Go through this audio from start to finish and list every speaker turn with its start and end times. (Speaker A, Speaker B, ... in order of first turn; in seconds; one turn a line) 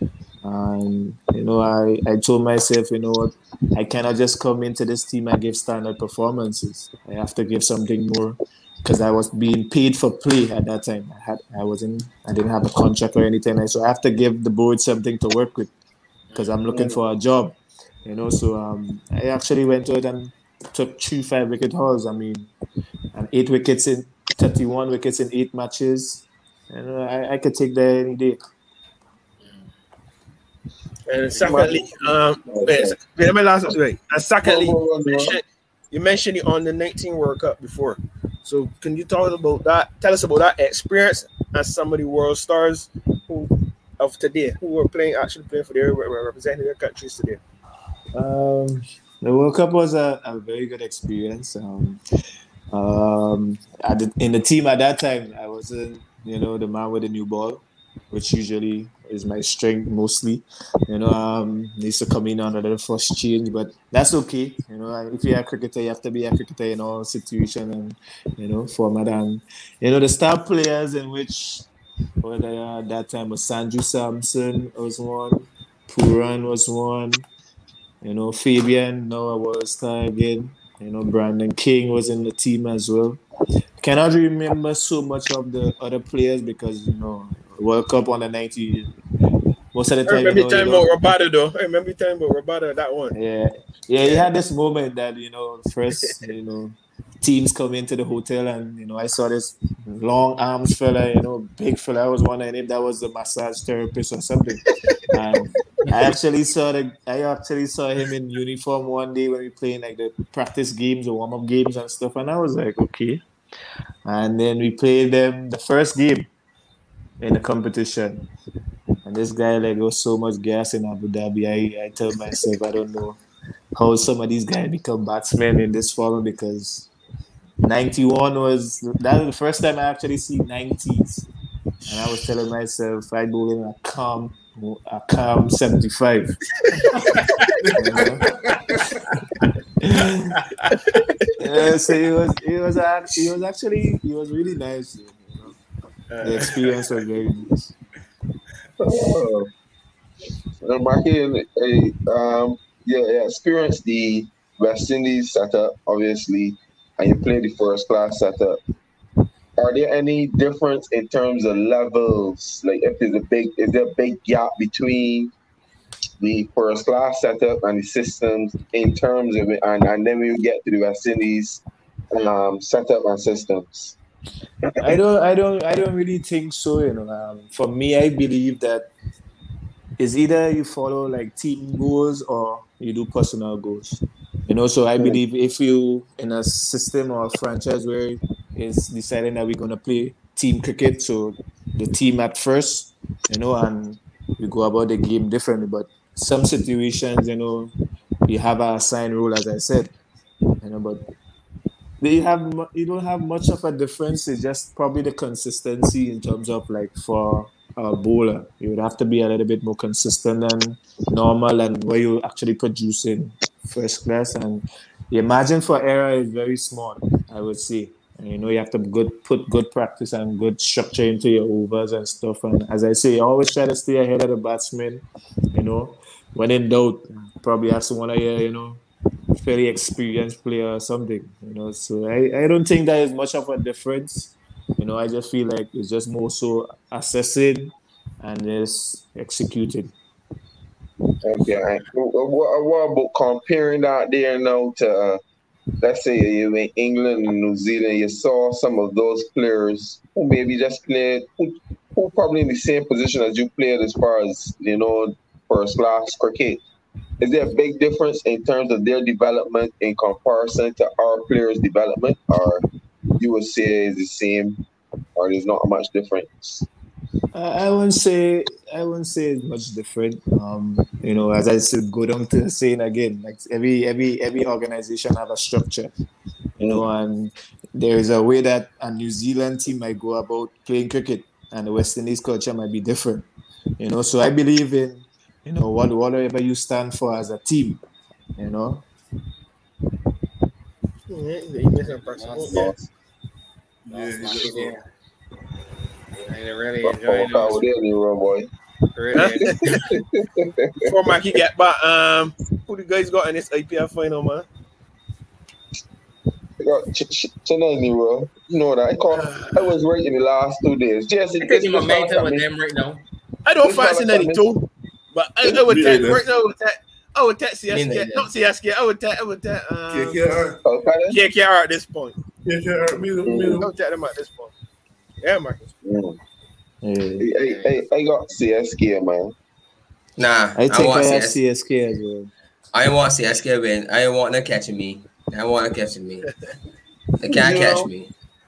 Speaker A: 0.4-15.7
Speaker B: 16.3-16.6
Speaker A: 16.3-22.5
Speaker A: 23.1-28.4
Speaker B: 29.4-29.7
Speaker C: 31.1-47.4
Speaker D: 31.4-33.0
Speaker D: 34.4-35.4
Speaker A: 48.1-52.0
Speaker A: 52.7-71.7
Speaker A: 72.2-77.2
Speaker A: 78.0-83.2
Speaker A: 83.8-88.9
Speaker A: 89.7-90.9
Speaker C: 90.1-93.1
Speaker A: 93.1-113.2
Speaker A: 114.0-116.3
Speaker A: 117.2-118.3
Speaker A: 119.0-123.2
Speaker A: 123.7-126.9
Speaker A: 127.6-131.3
Speaker A: 131.8-136.4
Speaker B: 136.9-137.5
Speaker E: 137.6-139.0
Speaker A: 137.7-138.3
Speaker A: 139.8-140.4
Speaker C: 140.9-141.3
Speaker A: 141.4-145.6
Speaker C: 146.1-146.8
Speaker A: 146.2-147.7
Speaker D: 148.8-149.5
Speaker D: 150.6-158.6
Speaker D: 159.6-165.3
Speaker D: 166.2-174.0
Speaker D: 174.6-174.9
Speaker A: 174.8-178.9
Speaker A: 180.0-197.7
Speaker A: 198.3-199.9
Speaker A: 200.6-201.0
Speaker A: 202.0-228.8
Speaker A: 229.3-239.9
Speaker D: 241.2-245.2
Speaker D: 245.8-256.6
Speaker D: 257.2-262.6
Speaker D: 263.2-264.6
Speaker D: 265.1-266.6
Speaker A: 267.3-275.9
Speaker D: 276.6-276.8
Speaker A: 276.6-283.3
Speaker A: 283.8-287.8
Speaker A: 288.4-288.9
Speaker C: 291.1-292.8
Speaker B: 291.8-292.7
Speaker D: 292.5-292.8
Speaker E: 293.8-294.8
Speaker B: 293.9-294.8
Speaker B: 296.2-297.6
Speaker D: 296.8-298.5
Speaker B: 298.9-299.8
Speaker C: 299.1-299.6
Speaker D: 299.2-300.9
Speaker C: 300.8-304.5
Speaker D: 306.6-312.4
Speaker C: 309.1-309.6
Speaker B: 311.4-313.0
Speaker C: 313.4-320.4
Speaker D: 313.6-314.5
Speaker E: 315.5-316.2
Speaker F: 317.7-318.2
Speaker B: 317.8-318.1
Speaker E: 319.9-320.6
Speaker D: 320.6-321.2
Speaker C: 321.1-322.2
Speaker E: 322.4-323.7
Speaker D: 323.2-323.6
Speaker C: 323.6-324.5
Speaker C: 325.2-325.7
Speaker D: 325.8-326.2
Speaker A: 326.8-327.3
Speaker D: 327.2-329.3
Speaker B: 327.4-327.8
Speaker F: 330.2-331.4
Speaker A: 330.6-332.3
Speaker F: 332.7-336.3
Speaker F: 337.2-338.1
Speaker D: 337.4-337.7
Speaker C: 337.5-337.9